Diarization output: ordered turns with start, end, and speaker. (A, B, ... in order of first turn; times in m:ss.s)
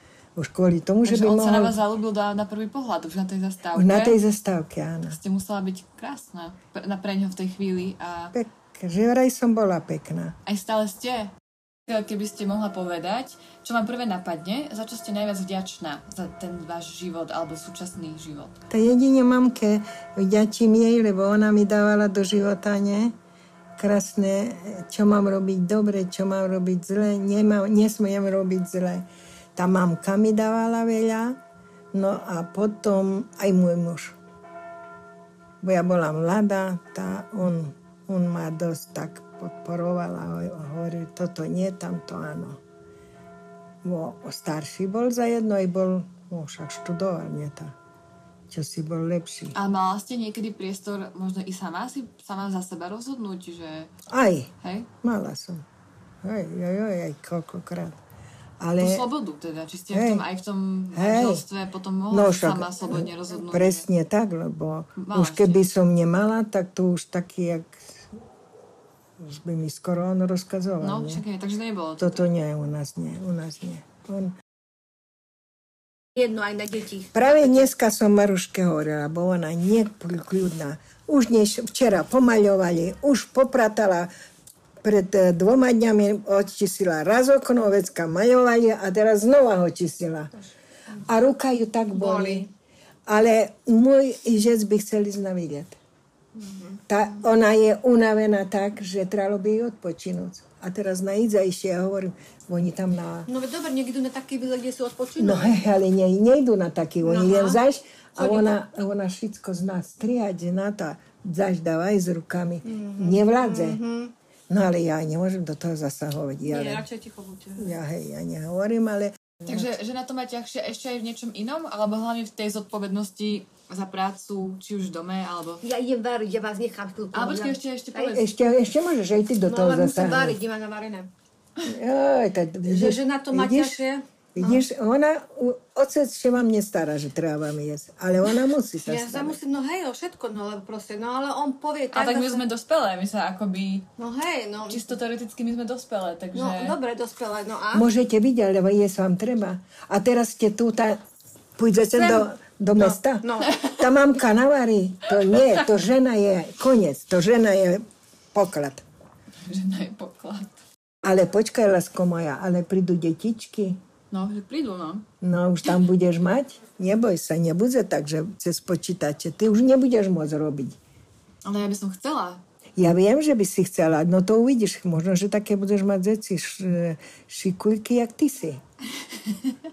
0:00.4-0:01.8 A
0:01.0-0:04.2 B
0:03.7-0:05.2 A
0:05.1-0:08.4 B
0:08.3-0:10.4 A
0:10.5-0:11.3 B
0:11.9-0:18.6 B
0:18.7-0:23.1 A
0:23.8-0:31.4 A
0:31.9-0:34.2 A
0:35.6-0:42.6 A
0:43.8-0:47.8 A
0:48.5-0:49.6 A
0:49.5-0:53.9 B
0:54.1-0:54.5 A
0:54.6-0:54.9 B
0:55.0-0:55.6 A
0:56.2-0:58.0 A
0:58.6-0:59.1 A
0:58.8-1:03.8 B
0:59.9-1:00.2 A
1:00.9-1:01.4 A
1:02.1-1:07.9 A
1:05.0-1:05.6 B
1:09.2-1:11.2 A
1:10.8-1:12.2 B
1:12.0-1:14.3 A
1:16.2-1:17.6 C
1:17.1-1:24.1 A
1:24.8-1:30.3 A
1:31.0-1:32.5 A
1:32.0-1:32.5 C
1:33.1-1:35.8 A
1:36.4-1:36.8 C
1:36.9-1:43.3 A
1:43.3-1:45.6 C
1:45.2-1:53.8 A
1:47.0-1:47.6 C
1:48.2-1:48.6 C
1:52.7-1:54.1 C
1:54.5-1:56.9 A
1:56.4-1:57.7 C
1:57.6-1:59.7 A
1:59.5-2:05.6 B
2:05.6-2:08.2 C
2:07.1-2:08.2 B
2:08.1-2:10.4 A
2:09.4-2:11.1 C
2:11.6-2:13.8 A
2:12.6-2:14.6 C
2:14.4-2:19.4 A
2:18.8-2:22.4 C
2:21.9-2:23.9 B
2:24.0-2:24.8 C
2:24.7-2:26.8 B
2:26.3-2:27.9 C
2:27.7-2:31.0 A
2:31.6-2:37.8 A
2:31.9-2:33.6 C
2:38.3-2:38.8 A
2:39.4-2:40.6 B
2:41.0-2:43.8 A
2:44.1-2:45.1 B
2:45.2-2:50.8 A
2:51.4-2:52.4 B
2:52.8-2:58.6 A